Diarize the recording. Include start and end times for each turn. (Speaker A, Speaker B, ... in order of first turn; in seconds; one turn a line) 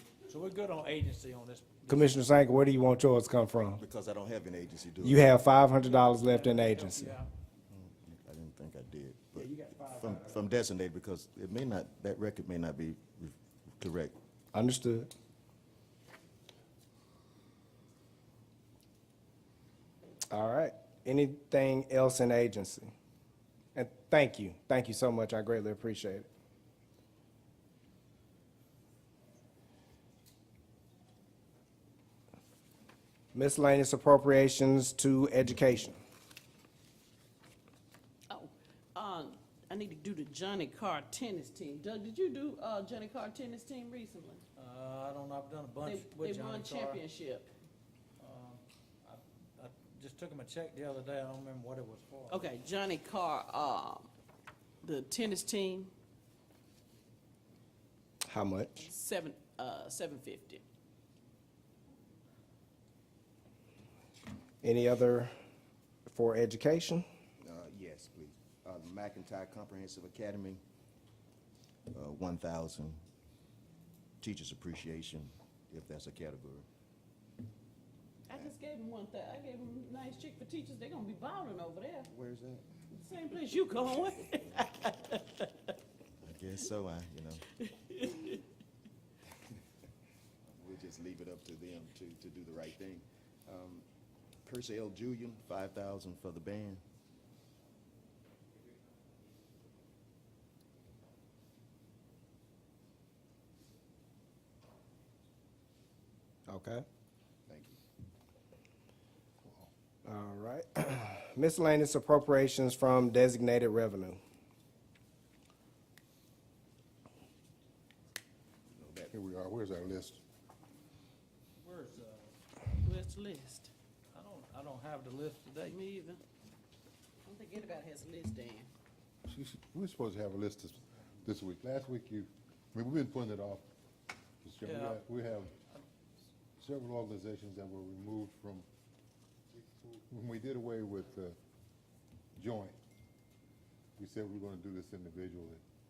Speaker A: 0.3-2.2
Speaker B: 1.9-3.8
Speaker C: 3.8-5.4
Speaker B: 5.0-7.1
Speaker A: 5.8-7.3
Speaker C: 7.7-14.1
Speaker A: 9.3-10.5
Speaker B: 14.5-15.1
Speaker B: 20.3-22.9
Speaker B: 23.7-26.3
Speaker B: 33.3-36.0
Speaker D: 38.3-44.4
Speaker A: 44.5-47.0
Speaker D: 45.8-47.5
Speaker A: 48.2-52.5
Speaker D: 52.3-54.1
Speaker D: 54.8-55.9
Speaker B: 58.2-58.9
Speaker D: 58.9-60.6
Speaker B: 64.6-65.3
Speaker B: 66.1-67.0
Speaker C: 67.4-70.6
Speaker C: 71.9-73.0
Speaker C: 74.2-76.7
Speaker D: 78.3-82.1
Speaker C: 82.1-82.7
Speaker D: 82.9-85.5
Speaker C: 86.2-87.5
Speaker D: 87.6-88.4
Speaker C: 90.5-93.8
Speaker C: 94.5-96.8
Speaker B: 106.5-106.8
Speaker C: 107.5-107.8
Speaker B: 110.0-114.2
Speaker C: 118.8-119.1
Speaker E: 119.1-120.2
Speaker A: 121.6-122.3
Speaker D: 122.8-123.7
Speaker A: 124.1-125.8
Speaker D: 125.6-126.2
Speaker D: 127.2-128.7
Speaker E: 129.3-133.7
Speaker E: 134.4-135.5
Speaker A: 134.6-135.0
Speaker E: 136.6-138.7
Speaker E: 139.5-141.4
Speaker E: 142.4-142.8
Speaker E: 144.0-145.6